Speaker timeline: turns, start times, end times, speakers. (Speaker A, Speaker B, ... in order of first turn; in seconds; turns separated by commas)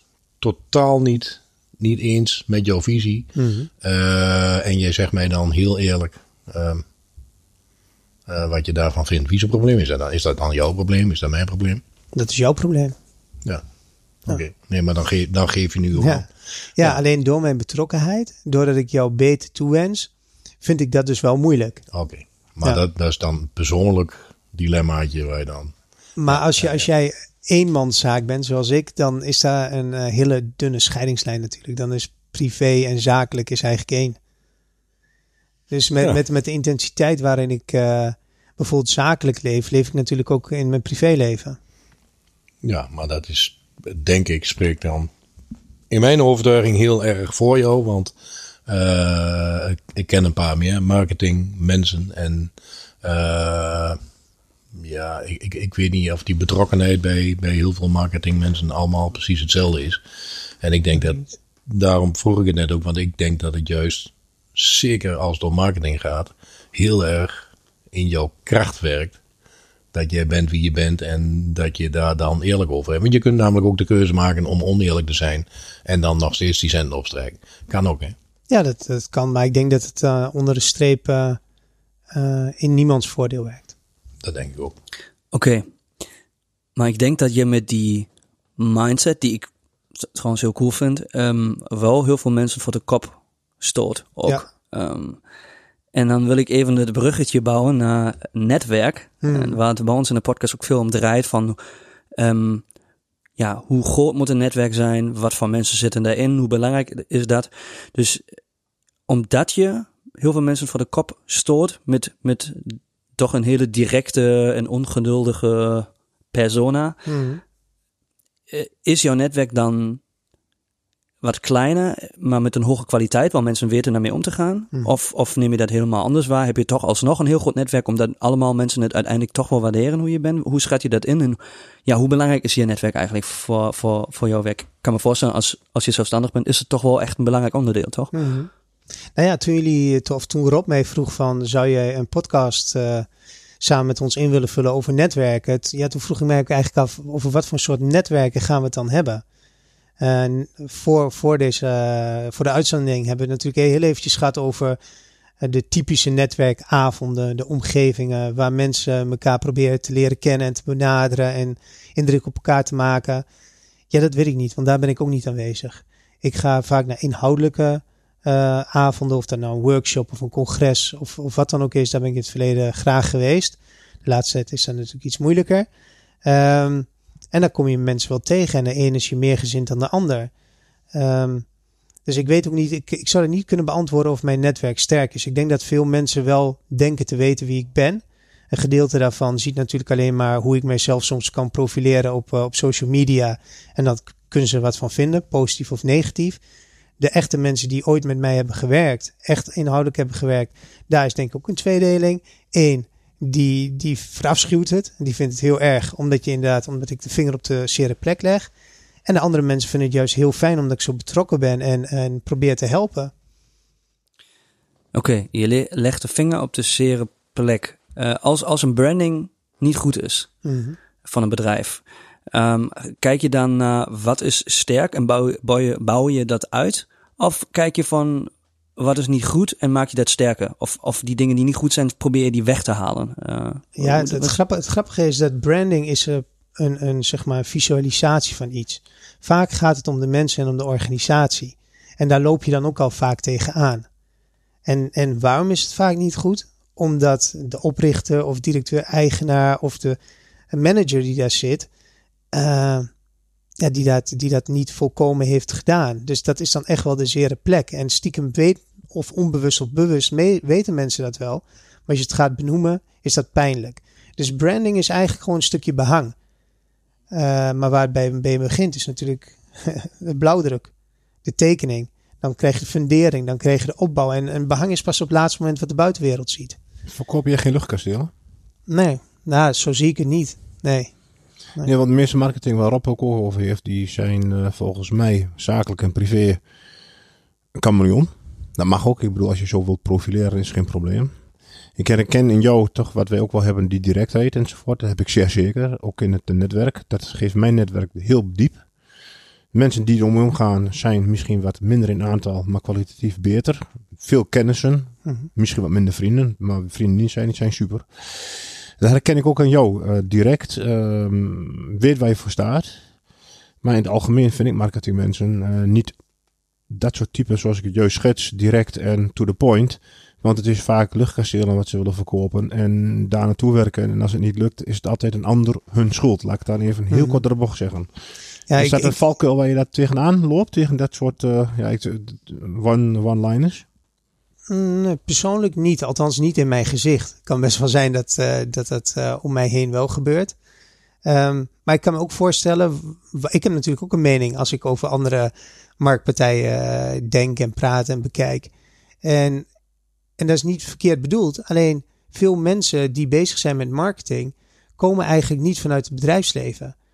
Speaker A: 0.4-3.3, Speaker B: 3.4-3.7, Speaker A: 3.8-6.8, Speaker A: 8.3-11.8, Speaker B: 12.1-12.9, Speaker A: 14.3-16.2, Speaker B: 16.0-16.2, Speaker B: 16.8-20.1, Speaker B: 20.6-21.8, Speaker A: 21.9-25.7, Speaker B: 26.2-34.2, Speaker A: 26.3-26.8, Speaker B: 35.7-41.6, Speaker A: 42.6-45.1, Speaker A: 45.9-48.1, Speaker A: 48.7-52.5, Speaker A: 53.0-54.0, Speaker A: 54.7-60.0, Speaker A: 60.6-69.2, Speaker A: 69.9-78.1, Speaker B: 78.5-81.4, Speaker B: 82.1-83.7, Speaker A: 84.2-84.7, Speaker C: 85.3-85.6, Speaker C: 86.8-95.2, Speaker C: 95.9-101.6, Speaker B: 99.2-99.6, Speaker C: 102.2-102.6, Speaker C: 103.4-108.2, Speaker C: 109.1-117.1, Speaker B: 117.0-117.4, Speaker C: 118.5-120.0, Speaker C: 121.2-138.1, Speaker B: 138.1-138.5, Speaker B: 139.2-143.1, Speaker B: 143.6-149.2, Speaker B: 150.0-154.8, Speaker B: 155.4-163.2, Speaker B: 163.9-175.7, Speaker B: 176.2-180.3, Speaker B: 180.9-181.4, Speaker B: 182.1-196.4, Speaker B: 197.0-208.5, Speaker B: 209.1-213.1, Speaker C: 214.9-220.3, Speaker B: 220.4-220.8, Speaker C: 221.0-234.3, Speaker B: 233.8-243.8, Speaker B: 244.7-250.0, Speaker B: 250.5-251.7, Speaker B: 252.3-252.9, Speaker B: 253.6-266.1, Speaker B: 267.1-270.7, Speaker B: 271.2-276.6, Speaker D: 276.9-278.1, Speaker B: 278.7-280.9, Speaker D: 281.6-286.4, Speaker D: 287.6-291.1, Speaker D: 291.8-298.6, Speaker D: 299.5-312.8, Speaker D: 313.6-316.0, Speaker D: 316.7-327.9, Speaker B: 326.9-327.2, Speaker B: 328.5-329.0, Speaker D: 328.5-333.6, Speaker B: 334.5-340.3, Speaker B: 341.1-348.5, Speaker B: 349.0-349.5, Speaker B: 350.2-356.7